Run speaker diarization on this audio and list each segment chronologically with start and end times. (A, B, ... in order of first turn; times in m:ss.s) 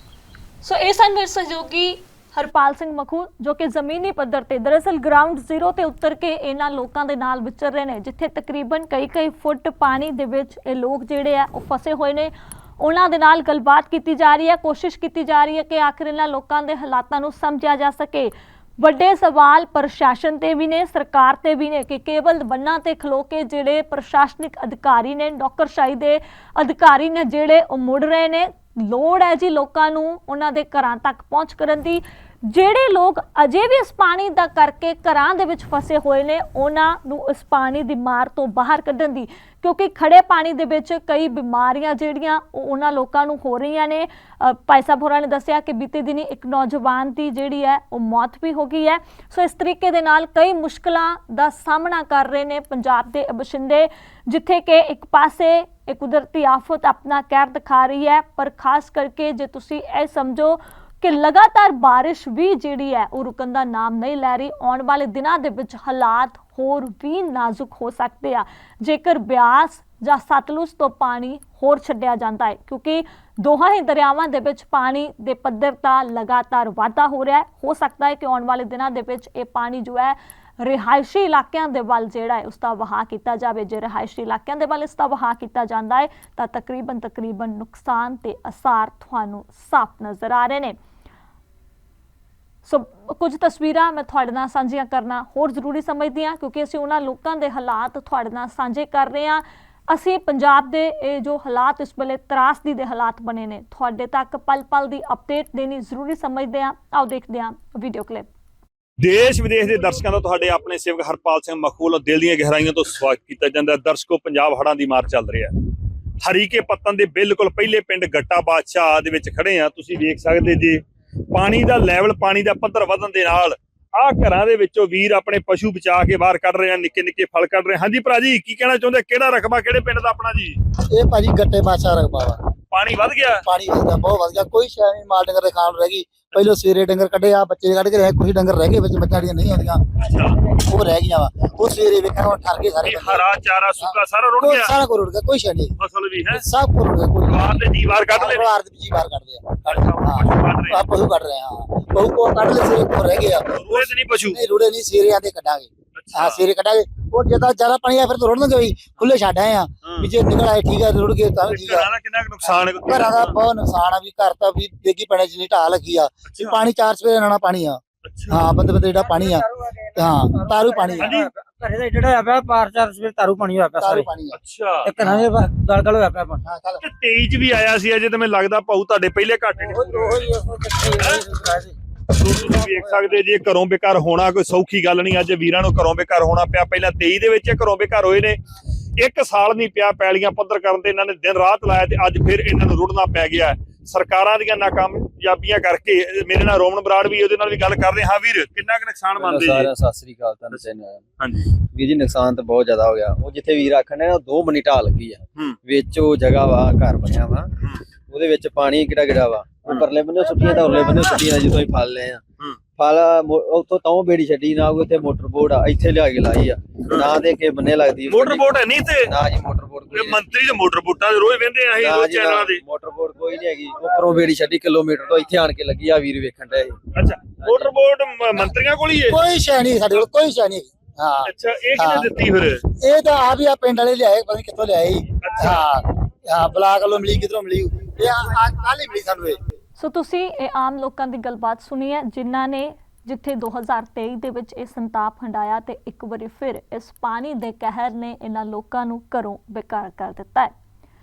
0:00.6-1:30.8 A
1:32.7-1:48.3 A
1:49.0-1:55.5 B
1:56.2-2:10.6 B
2:10.9-2:12.4 C
2:12.7-2:13.4 B
2:13.4-2:23.3 C
2:20.1-2:20.4 B
2:22.8-2:24.7 B
2:23.8-2:25.8 C
2:25.8-2:26.4 B
2:26.3-2:41.9 C
2:27.3-2:28.5 B
2:29.6-2:30.8 B
2:33.5-2:34.4 B
2:36.0-2:36.4 B
2:39.8-2:40.1 B
2:41.5-2:43.4 B
2:42.4-2:51.2 C
2:46.3-2:46.6 B
2:48.0-2:48.5 B
2:50.0-2:54.1 D
2:51.0-2:51.3 B
2:53.8-2:54.4 C
2:54.3-2:55.0 B
2:54.9-2:56.4 D
2:55.0-2:55.3 C
2:56.4-2:56.8 C
2:56.8-3:00.2 B
2:59.6-3:01.8 D
3:00.0-3:00.3 C
3:02.2-3:08.4 B
3:02.5-3:03.1 C
3:09.0-3:19.7 B
3:19.2-3:21.1 E
3:21.2-3:21.5 B
3:21.7-3:27.5 E
3:28.1-3:40.2 E
3:36.9-3:37.2 B
3:38.1-3:39.1 B
3:39.9-3:42.6 B
3:41.7-3:46.8 E
3:47.0-3:49.2 B
3:47.4-3:47.7 E
3:49.1-3:52.1 C
3:51.3-3:52.6 B
3:52.8-3:59.4 C
3:55.2-3:55.6 B
3:59.8-4:10.5 A